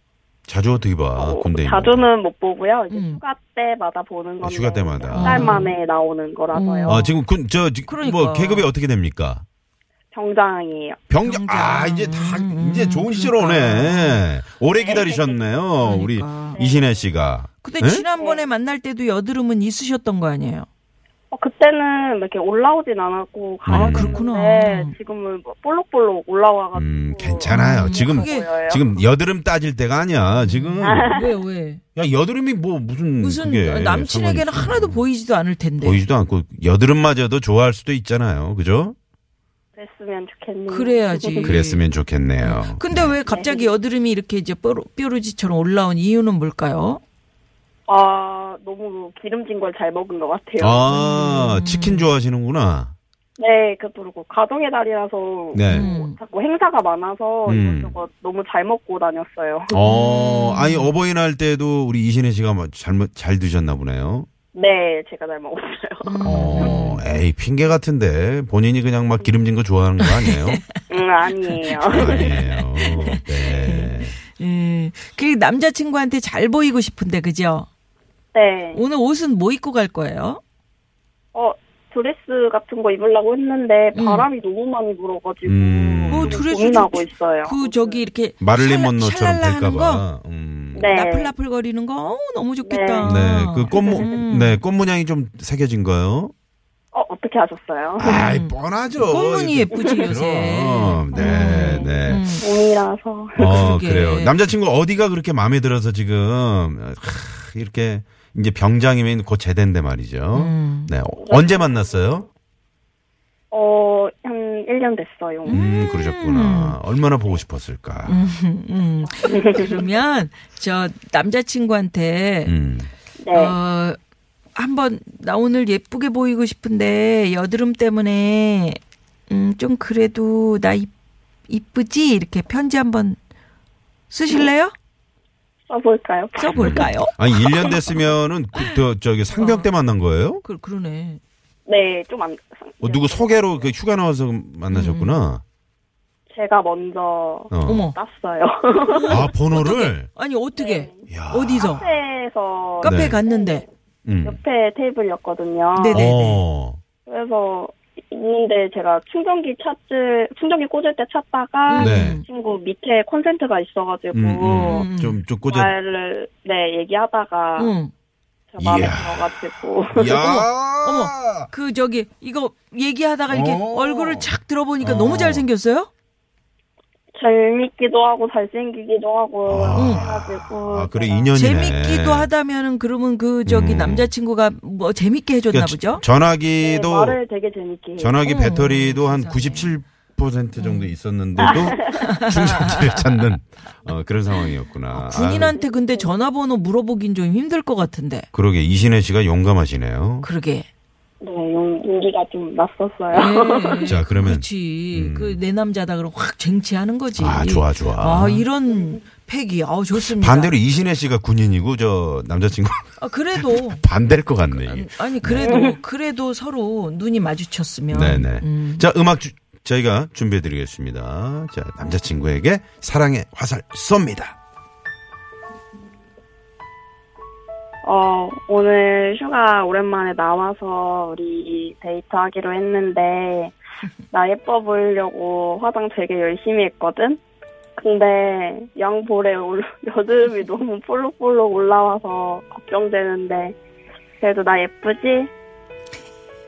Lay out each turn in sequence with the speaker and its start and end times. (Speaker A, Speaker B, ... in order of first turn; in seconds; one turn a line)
Speaker A: 0.5-2.0
Speaker B: 1.1-7.0
Speaker C: 2.9-3.2
Speaker A: 4.4-5.6
Speaker C: 5.1-5.7
Speaker C: 6.5-7.2
Speaker A: 6.8-9.4
Speaker C: 7.9-8.7
Speaker B: 10.1-11.0
Speaker A: 11.1-18.0
Speaker C: 11.2-14.2
Speaker B: 14.8-15.4
Speaker C: 15.8-16.6
Speaker B: 16.5-16.9
Speaker C: 17.6-20.7
Speaker B: 18.2-18.4
Speaker B: 21.3-29.0
Speaker A: 23.6-24.2
Speaker C: 23.7-24.9
Speaker A: 26.7-31.1
Speaker C: 27.5-28.5
Speaker C: 30.3-31.8
Speaker B: 30.8-31.3
Speaker A: 31.9-35.0
Speaker C: 33.2-36.0
Speaker A: 35.8-38.9
Speaker B: 39.8-41.5
Speaker C: 40.7-41.9
Speaker A: 41.4-43.2
Speaker C: 42.4-47.0
Speaker B: 43.3-43.7
Speaker B: 47.9-50.9
Speaker A: 50.6-52.9
Speaker C: 50.9-52.1
Speaker B: 53.4-59.8
Speaker A: 55.5-55.9
Speaker C: 55.6-56.2
Speaker A: 57.5-58.0
Speaker A: 59.7-64.3
Speaker C: 59.8-60.9
Speaker B: 64.5-67.0
Speaker C: 66.0-67.0
Speaker A: 66.2-70.6
Speaker C: 70.0-70.6
Speaker B: 70.9-72.4
Speaker C: 71.7-77.7
Speaker A: 71.9-74.2
Speaker B: 78.3-78.8
Speaker C: 78.7-80.4
Speaker B: 81.3-88.0
Speaker C: 83.9-84.3
Speaker A: 85.4-86.4
Speaker C: 86.1-90.0
Speaker A: 88.4-90.9
Speaker B: 90.7-91.3
Speaker C: 90.8-94.6
Speaker B: 92.7-94.2
Speaker A: 93.0-96.3
Speaker B: 96.9-98.2
Speaker A: 98.0-102.4
Speaker C: 98.0-102.5
Speaker B: 99.7-100.0
Speaker B: 101.1-103.4
Speaker A: 103.3-112.3
Speaker C: 103.3-104.3
Speaker C: 110.3-110.9
Speaker B: 111.2-111.7
Speaker B: 113.5-115.7
Speaker C: 115.4-116.8
Speaker A: 115.5-118.3
Speaker C: 118.1-122.6
Speaker B: 119.0-119.8
Speaker A: 122.5-122.9
Speaker B: 123.2-123.5
Speaker C: 123.3-124.0
Speaker C: 124.5-130.9
Speaker C: 131.5-133.2
Speaker C: 134.1-134.7
Speaker B: 135.7-136.9
Speaker C: 136.4-139.7
Speaker A: 136.5-140.4
Speaker C: 140.4-141.2
Speaker B: 141.7-143.7
Speaker A: 142.8-145.4
Speaker C: 144.7-145.2
Speaker B: 146.3-149.3
Speaker A: 147.5-147.9
Speaker C: 147.6-147.9
Speaker C: 148.8-151.8
Speaker A: 149.1-150.1
Speaker B: 150.6-151.0
Speaker A: 151.1-151.9
Speaker B: 151.7-153.7
Speaker C: 152.8-153.6
Speaker A: 152.8-153.2
Speaker A: 154.1-154.4
Speaker B: 154.2-156.1
Speaker C: 155.8-156.4
Speaker A: 155.9-156.8
Speaker B: 157.1-164.8
Speaker C: 161.7-162.2
Speaker A: 161.8-162.2
Speaker A: 164.1-165.7
Speaker C: 164.6-165.2
Speaker B: 165.4-167.7
Speaker C: 167.6-167.9
Speaker B: 168.5-170.4
Speaker A: 168.6-171.5
Speaker C: 170.2-175.9
Speaker A: 173.3-175.5
Speaker B: 177.1-181.4
Speaker A: 179.4-182.3
Speaker C: 179.7-180.1
Speaker C: 181.3-186.0
Speaker A: 183.4-184.1
Speaker A: 185.5-187.2
Speaker B: 186.6-188.2
Speaker A: 188.0-195.6
Speaker C: 188.2-189.8
Speaker C: 190.6-190.9
Speaker B: 191.4-192.0
Speaker C: 191.5-193.3
Speaker C: 194.9-198.3
Speaker B: 195.6-196.1
Speaker A: 198.3-200.3
Speaker C: 200.2-200.7
Speaker B: 201.2-203.9
Speaker C: 203.1-210.5
Speaker A: 203.8-205.4
Speaker A: 207.2-208.4
Speaker A: 209.9-215.6
Speaker C: 213.0-213.8
Speaker C: 214.5-218.8
Speaker B: 215.4-215.8
Speaker A: 217.9-224.3
Speaker B: 227.8-233.5
Speaker B: 234.1-237.2
Speaker B: 237.8-243.6
Speaker B: 244.2-245.3